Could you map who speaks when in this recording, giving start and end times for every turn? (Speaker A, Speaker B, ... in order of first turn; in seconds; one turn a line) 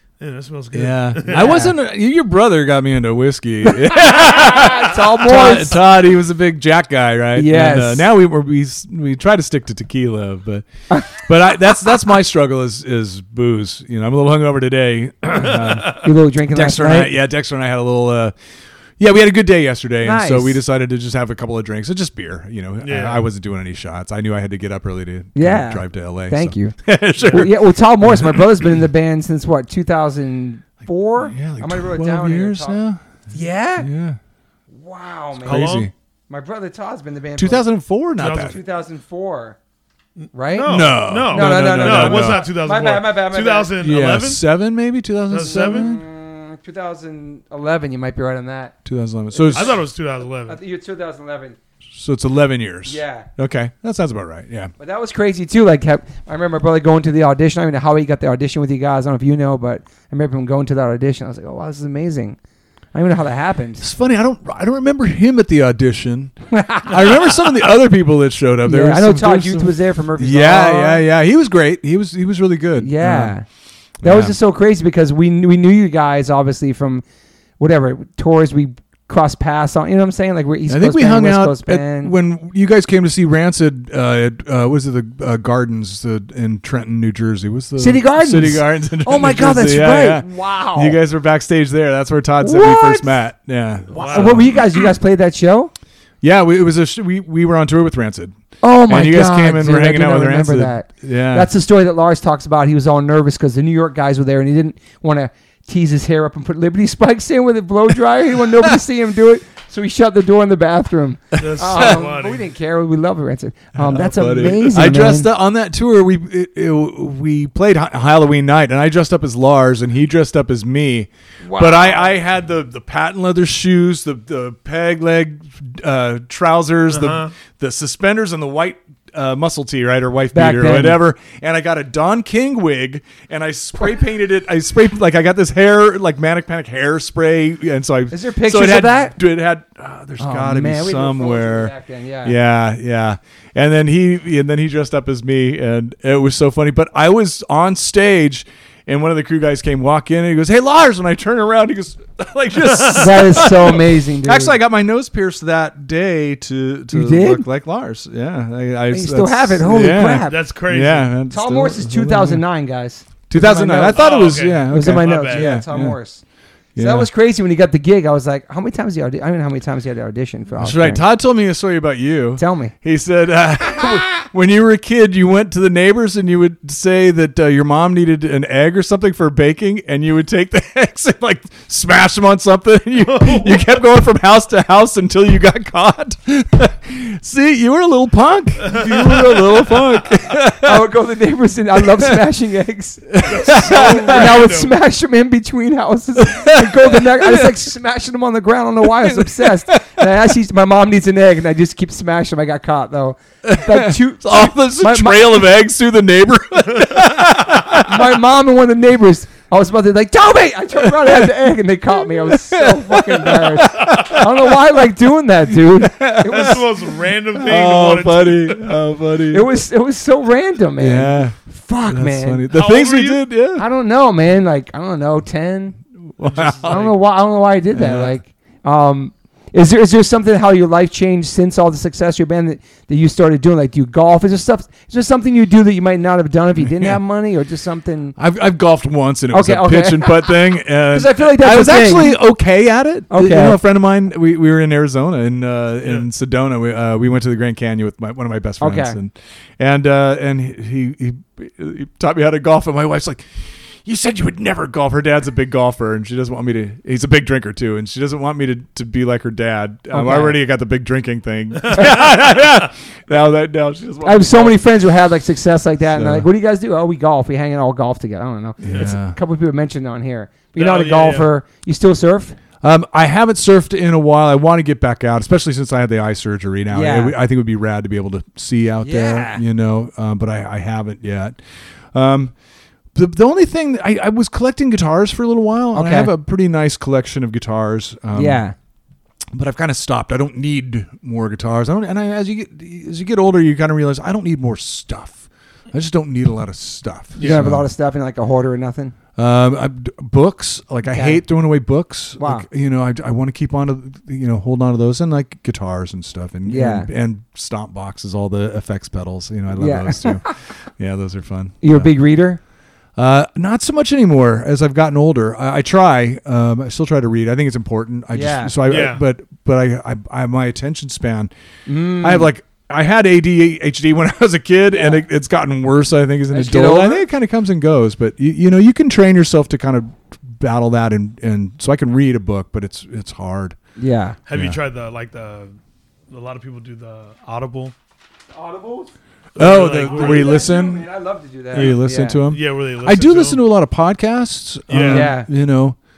Speaker A: 0.2-1.7
Speaker B: 0.7-18.3
Speaker C: 1.3-1.7
Speaker C: 3.6-5.8
Speaker C: 7.3-8.1
Speaker A: 15.6-15.9
Speaker C: 15.9-17.1
Speaker B: 19.0-28.8
Speaker C: 20.0-20.6
Speaker A: 22.8-23.2
Speaker C: 25.3-26.7
Speaker C: 27.3-32.8
Speaker B: 31.2-33.0
Speaker C: 33.3-33.9
Speaker B: 33.8-34.2
Speaker C: 34.7-37.6
Speaker A: 35.4-35.9
Speaker B: 35.4-35.9
Speaker B: 37.4-38.6
Speaker A: 38.2-38.5
Speaker C: 38.3-39.6
Speaker A: 40.2-44.4
Speaker C: 40.3-43.7
Speaker B: 40.6-42.4
Speaker B: 43.8-46.0
Speaker A: 45.3-46.0
Speaker C: 45.4-48.7
Speaker B: 48.8-49.8
Speaker C: 49.3-49.8
Speaker A: 49.5-50.6
Speaker C: 50.5-51.6
Speaker B: 51.9-54.7
Speaker C: 52.9-53.3
Speaker C: 54.8-62.4
Speaker C: 62.9-63.8
Speaker B: 63.8-73.3
Speaker C: 66.5-67.2
Speaker C: 68.6-71.0
Speaker C: 72.8-73.4
Speaker B: 74.0-74.4
Speaker C: 74.0-77.0
Speaker C: 77.6-82.1
Speaker B: 80.7-94.5
Speaker C: 87.8-91.0
Speaker C: 92.4-93.2
Speaker A: 93.9-94.5
Speaker C: 93.9-95.7
Speaker B: 96.2-98.3
Speaker C: 98.6-115.3
Speaker B: 98.9-101.5
Speaker B: 111.3-112.0
Speaker A: 111.4-112.4
Speaker B: 113.8-141.7
Speaker C: 121.4-122.1
Speaker A: 126.9-127.3
Speaker C: 130.3-131.0
Speaker C: 138.1-139.2
Speaker C: 140.2-142.3
Speaker B: 142.2-162.4
Speaker A: 152.7-153.2
Speaker C: 152.9-154.6
Speaker C: 156.9-157.4
Speaker C: 158.9-160.4
Speaker A: 160.3-161.1
Speaker C: 161.3-164.1
Speaker B: 163.3-166.0
Speaker A: 163.9-165.6
Speaker C: 164.7-166.2
Speaker B: 166.8-167.1
Speaker C: 166.8-171.0
Speaker B: 170.6-190.9
Speaker C: 172.4-172.7
Speaker A: 183.0-183.7
Speaker A: 188.6-189.3
Speaker C: 190.6-205.4
Speaker B: 191.8-192.2
Speaker B: 193.1-194.5
Speaker A: 193.2-194.7
Speaker B: 196.2-197.6
Speaker B: 198.8-200.1
Speaker B: 203.4-208.2
Speaker C: 207.7-216.6
Speaker B: 210.8-211.3
Speaker B: 212.0-214.6
Speaker B: 215.5-219.5
Speaker A: 216.2-218.8
Speaker C: 219.3-222.4
Speaker B: 220.8-223.6
Speaker A: 222.5-223.2
Speaker C: 223.6-225.8
Speaker B: 226.2-226.9
Speaker A: 226.2-226.9
Speaker C: 226.6-238.1
Speaker B: 227.7-228.2
Speaker B: 236.7-237.0
Speaker B: 238.2-264.6
Speaker C: 239.3-242.2
Speaker C: 243.1-243.6
Speaker C: 248.6-249.0
Speaker C: 259.9-260.4
Speaker A: 261.6-262.0
Speaker C: 261.7-262.1
Speaker C: 264.0-272.4
Speaker B: 265.9-266.3
Speaker B: 268.6-269.2
Speaker A: 270.5-271.3
Speaker B: 272.6-281.4
Speaker C: 276.7-277.1
Speaker C: 278.8-279.4
Speaker B: 281.9-282.3
Speaker B: 282.9-288.4
Speaker C: 285.7-286.1
Speaker C: 288.1-288.5
Speaker B: 289.3-297.6
Speaker A: 297.2-297.5
Speaker C: 297.2-298.9
Speaker B: 299.1-311.9
Speaker C: 300.9-301.2
Speaker C: 302.2-302.4
Speaker C: 306.5-306.9
Speaker C: 309.6-310.3
Speaker C: 311.6-312.4
Speaker B: 312.9-321.3
Speaker C: 318.1-318.6
Speaker A: 318.7-319.0
Speaker C: 321.6-322.3
Speaker B: 322.0-333.6
Speaker C: 324.7-325.0
Speaker C: 326.3-327.1
Speaker C: 333.8-334.2
Speaker A: 334.3-335.5
Speaker B: 334.3-334.6
Speaker A: 336.1-337.7
Speaker C: 338.3-338.9
Speaker A: 339.4-340.4
Speaker B: 339.4-340.9
Speaker C: 339.8-342.2
Speaker B: 341.5-345.8
Speaker A: 341.5-343.4
Speaker A: 344.7-345.1
Speaker C: 344.8-345.3